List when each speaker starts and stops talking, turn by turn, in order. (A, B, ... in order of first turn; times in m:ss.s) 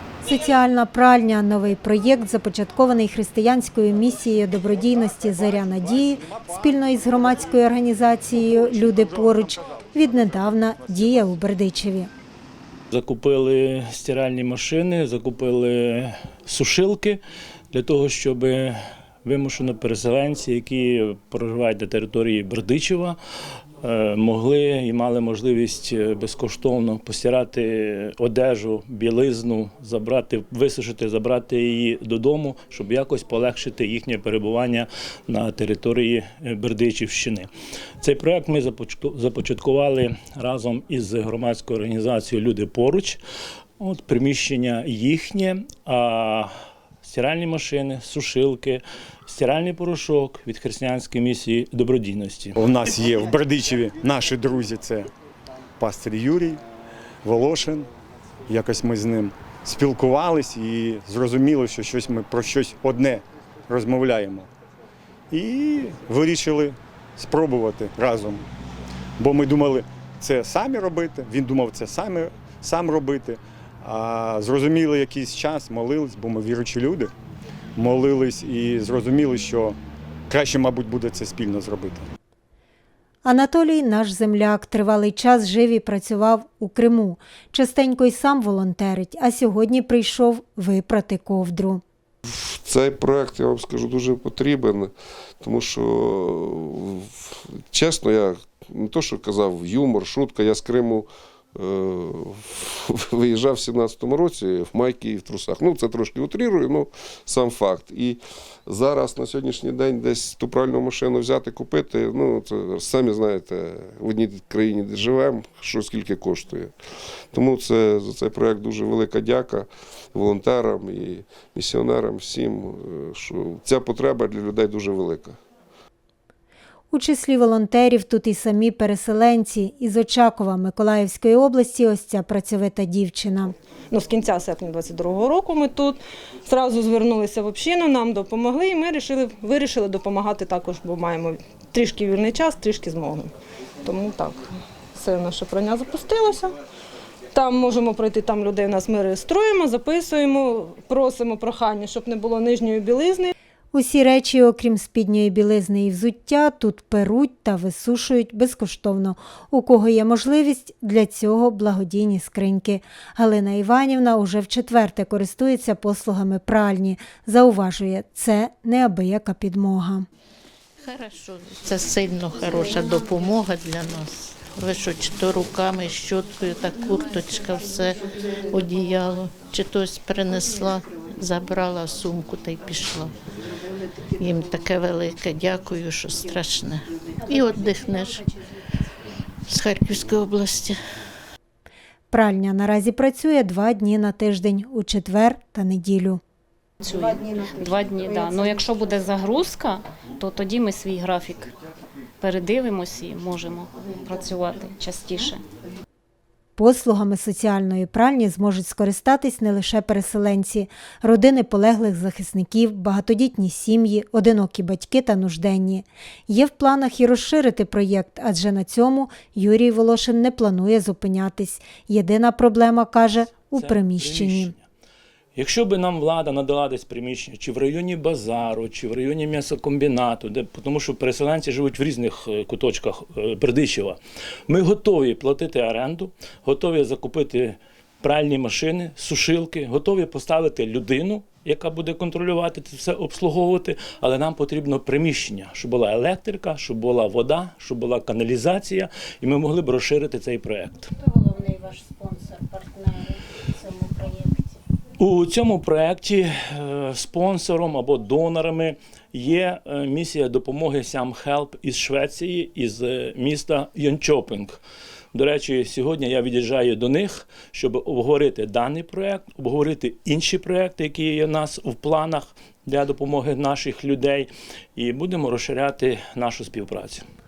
0:00.2-0:12.1 A
0:12.9-0:17.2 B
0:17.7-0:23.2 B
0:23.8-0:37.5 B
0:38.0-0:43.2 B
0:43.8-0:46.5 B
0:47.0-0:52.6 B
0:52.6-0:55.1 C
0:55.8-0:56.6 C
0:57.2-0:57.9 C
0:58.5-1:04.5 C
1:05.3-1:08.4 C
1:09.2-1:17.1 C
1:17.8-1:19.8 C
1:20.3-1:22.1 C
1:23.2-1:31.8 A
1:32.3-1:56.7 D
1:57.3-2:05.4 D
2:06.9-2:13.5 A
2:13.9-2:23.3 E
2:23.8-2:26.5 E
2:27.3-2:33.3 E
2:33.7-2:50.0 A
2:50.8-2:58.0 F
2:58.5-3:03.1 F
3:04.2-3:08.2 F
3:09.5-3:10.8 F
3:12.1-3:16.2 A
3:16.8-3:21.5 G
3:22.2-3:25.4 G
3:26.6-3:44.5 A
3:43.5-3:44.6 B
3:45.3-4:10.9 B
4:11.0-4:14.4 G
4:15.0-4:24.6 B
4:25.1-4:37.0 B